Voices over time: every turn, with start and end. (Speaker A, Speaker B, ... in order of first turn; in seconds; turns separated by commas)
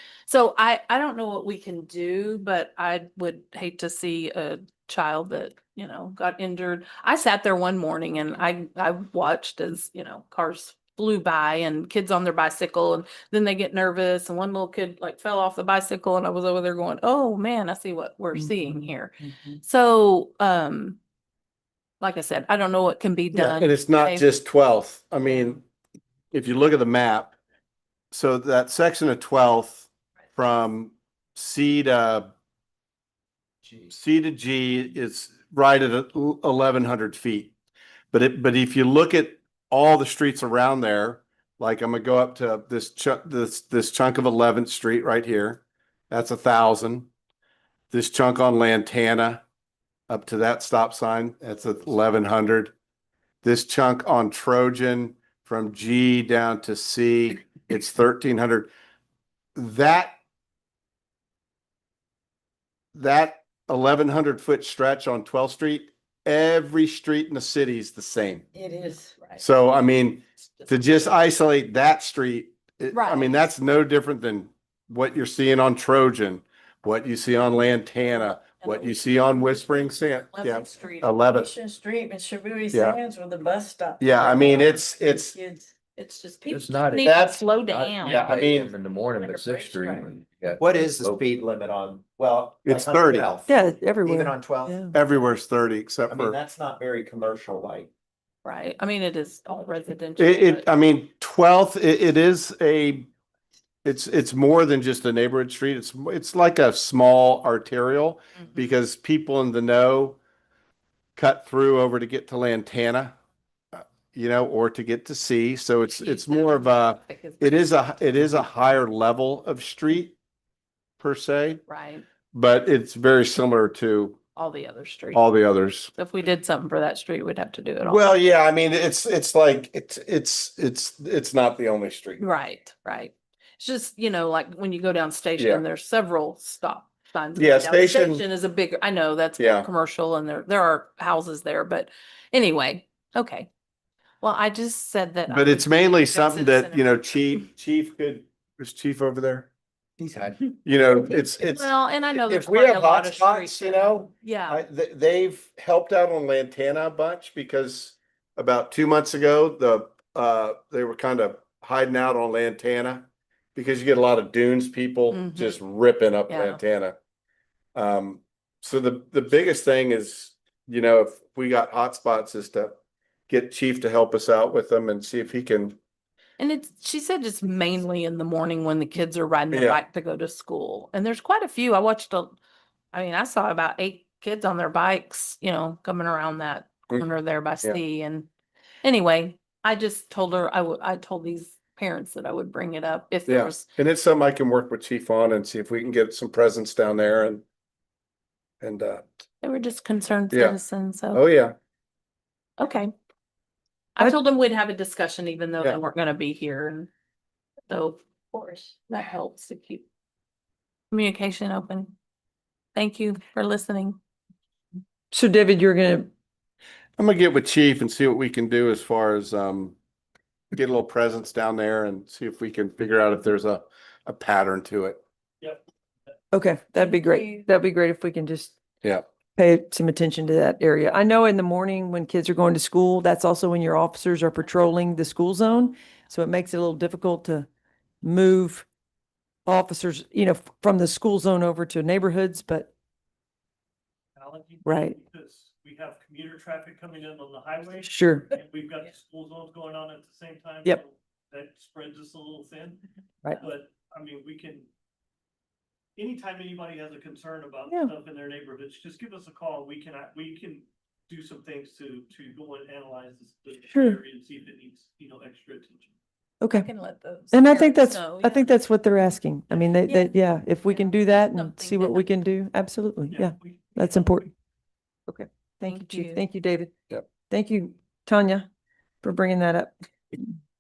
Speaker A: 0.3-21.0, Speaker B: 18.4-19.6, Speaker A: 22.0-24.3, Speaker C: 23.3-25.6, Speaker C: 26.3-27.4, Speaker C: 28.1-32.3, Speaker C: 33.9-37.5, Speaker C: 38.1-47.1, Speaker C: 47.9-49.4, Speaker C: 50.1-52.7, Speaker C: 53.4-58.7, Speaker C: 59.6-60.1, Speaker C: 63.0-68.5, Speaker D: 68.6-69.1, Speaker C: 69.4-81.5, Speaker A: 72.9-73.3, Speaker A: 78.6-79.6, Speaker A: 80.3-81.5, Speaker D: 81.4-85.6, Speaker C: 82.7-83.0, Speaker C: 84.0-85.4, Speaker A: 86.0-88.6, Speaker E: 86.5-91.3, Speaker C: 87.0-87.4, Speaker C: 88.0-88.7, Speaker A: 89.2-90.0, Speaker F: 90.6-94.8, Speaker C: 92.7-93.3, Speaker B: 93.5-94.9, Speaker C: 94.9-96.3, Speaker F: 96.1-97.9, Speaker A: 98.5-100.7, Speaker C: 100.2-103.1, Speaker C: 103.8-110.2, Speaker C: 111.2-113.2, Speaker C: 113.7-120.2, Speaker A: 115.9-117.9, Speaker C: 121.0-121.6, Speaker A: 121.7-122.0, Speaker C: 122.3-124.2, Speaker A: 124.4-125.2, Speaker C: 125.1-125.9, Speaker A: 126.0-128.1, Speaker C: 127.8-132.2, Speaker A: 132.2-143.5, Speaker C: 135.4-135.6, Speaker C: 137.4-138.2, Speaker C: 139.4-139.7, Speaker A: 144.2-147.4, Speaker C: 145.3-149.5, Speaker F: 150.0-150.4, Speaker C: 150.6-167.0, Speaker A: 151.2-154.6, Speaker A: 165.1-165.6, Speaker A: 166.3-166.6, Speaker C: 167.8-172.8, Speaker C: 173.3-175.8, Speaker A: 176.4-182.4, Speaker C: 179.5-179.8, Speaker A: 182.9-188.3, Speaker A: 188.8-193.7, Speaker C: 193.3-197.4, Speaker C: 198.6-199.1, Speaker A: 199.4-201.2, Speaker C: 200.3-200.6, Speaker C: 201.1-201.6, Speaker A: 202.6-202.9, Speaker A: 204.0-206.9, Speaker A: 207.7-209.8, Speaker A: 210.9-211.9, Speaker A: 212.8-214.0, Speaker B: 215.1-216.1, Speaker C: 217.0-219.8, Speaker C: 220.5-225.0, Speaker G: 225.4-226.1, Speaker B: 226.3-228.6, Speaker B: 229.3-237.5, Speaker B: 238.0-238.7, Speaker B: 239.5-242.7, Speaker G: 244.2-254.7, Speaker B: 244.7-245.0, Speaker B: 247.8-248.3, Speaker G: 256.0-265.9, Speaker B: 263.7-264.0, Speaker B: 266.4-266.7, Speaker A: 266.5-268.6, Speaker B: 267.3-274.3, Speaker A: 269.9-270.2, Speaker A: 270.7-272.1, Speaker G: 273.1-274.3, Speaker B: 275.1-278.5, Speaker A: 275.7-276.2, Speaker B: 279.0-280.2